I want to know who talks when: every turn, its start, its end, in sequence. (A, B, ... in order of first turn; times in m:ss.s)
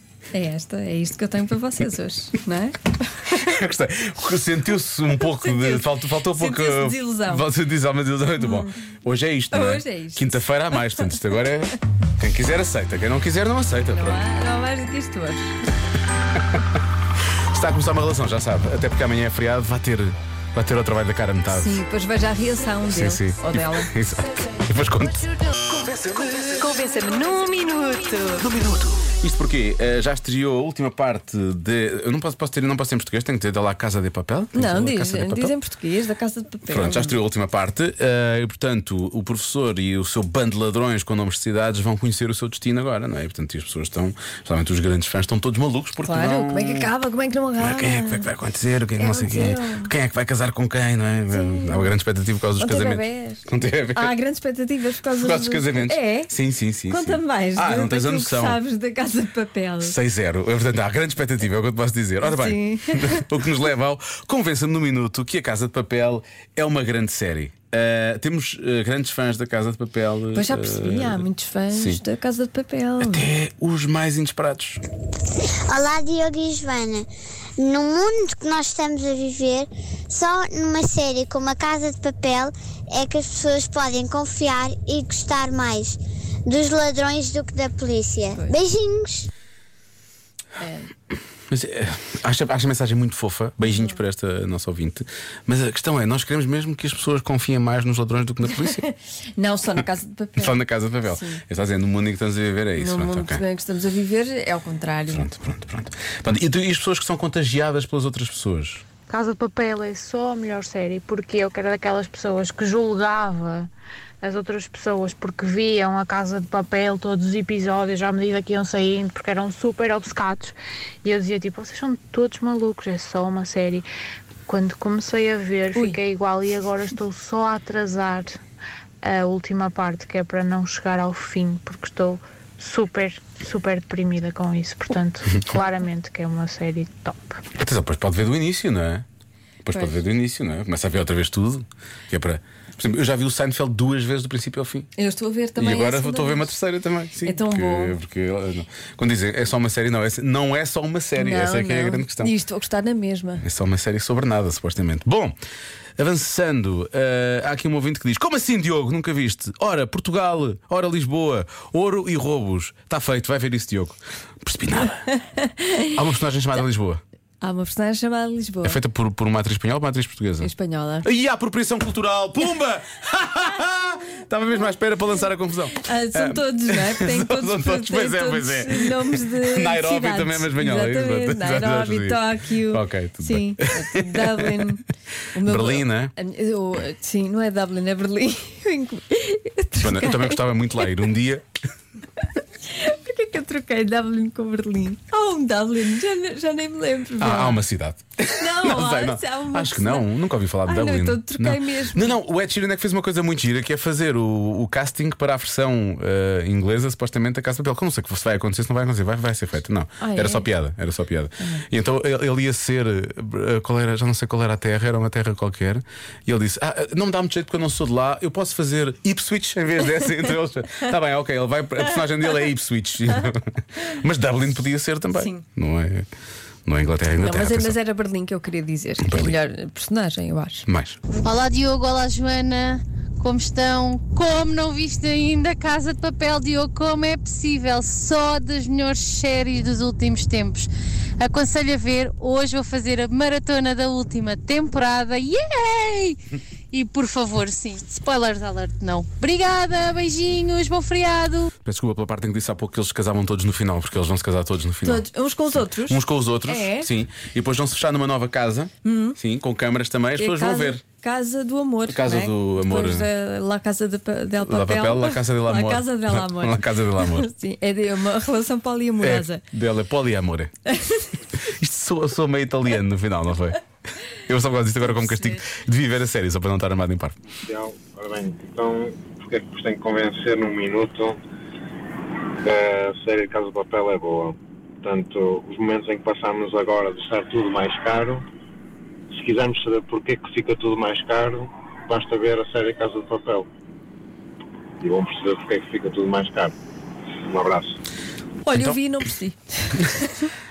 0:00.3-0:03.5 A
0:03.3-0:14.2 B
0:05.2-0:07.5 A
0:08.4-0:08.7 A
0:09.5-0:11.1 A
0:13.9-0:15.5 A
0:17.5-0:21.8 B
0:21.5-0:23.9 A
0:22.9-0:26.6 B
0:26.5-0:28.5 A
0:28.4-0:35.6 B
0:34.6-0:37.2 A
0:36.7-0:46.9 B
0:46.0-0:48.3 A
0:47.6-0:54.2 B
0:49.0-0:49.9 A
0:51.3-0:51.9 A
0:52.6-0:56.3 A
0:55.1-0:58.6 B
0:56.9-1:00.0 A
0:59.8-1:12.0 B
1:02.2-1:03.3 A
1:10.3-1:13.3 A
1:13.0-1:14.8 B
1:15.7-1:17.1 C
1:17.6-1:29.3 C
1:30.6-1:30.9 A
1:31.5-1:38.8 B
1:38.6-1:41.4 A
1:40.4-1:43.4 B
1:42.8-1:45.3 A
1:45.1-1:48.8 B
1:49.1-1:53.7 D
1:54.2-2:03.9 D
2:04.5-2:08.4 D
2:09.0-2:17.4 D
2:17.6-2:19.1 B
2:19.6-2:24.9 B
2:19.7-2:20.0 A
2:25.0-2:26.5 A
2:25.6-2:32.3 B
2:27.2-2:28.0 A
2:31.2-2:33.4 A
2:33.4-2:35.4 B
2:36.0-2:45.1 B
2:45.3-2:45.9 A
2:45.9-2:47.0 B
2:47.4-2:48.8 A
2:48.6-2:50.5 B
2:50.4-2:51.1 A
2:51.0-3:04.8 B
2:55.8-3:10.4 A
3:05.4-3:06.1 B
3:09.8-3:11.5 B
3:12.7-3:17.6 A
3:17.2-3:46.1 B
3:18.3-3:20.1 A
3:20.7-3:22.2 A
3:30.0-3:30.5 A
3:31.4-3:31.6 A
3:45.1-3:45.4 A
3:46.7-3:47.8 B
3:47.2-3:50.7 A
3:49.0-3:49.3 B
3:50.7-3:51.0 B
3:51.2-4:06.2 E
4:06.7-4:11.5 E
4:11.6-4:20.8 B
4:14.8-4:16.9 A
4:18.8-4:19.2 A
4:20.2-4:29.4 A
4:21.9-4:23.1 B
4:24.4-4:27.3 B
4:29.0-4:30.5 B
4:30.7-4:31.1 A
4:31.4-4:37.2 B
4:34.9-4:35.4 A
4:37.3-4:41.2 F
4:42.4-4:48.2 F
4:49.1-4:53.5 F
4:54.8-4:56.6 F
4:57.3-4:57.8 F
4:58.4-5:00.3 A
4:58.5-4:58.8 B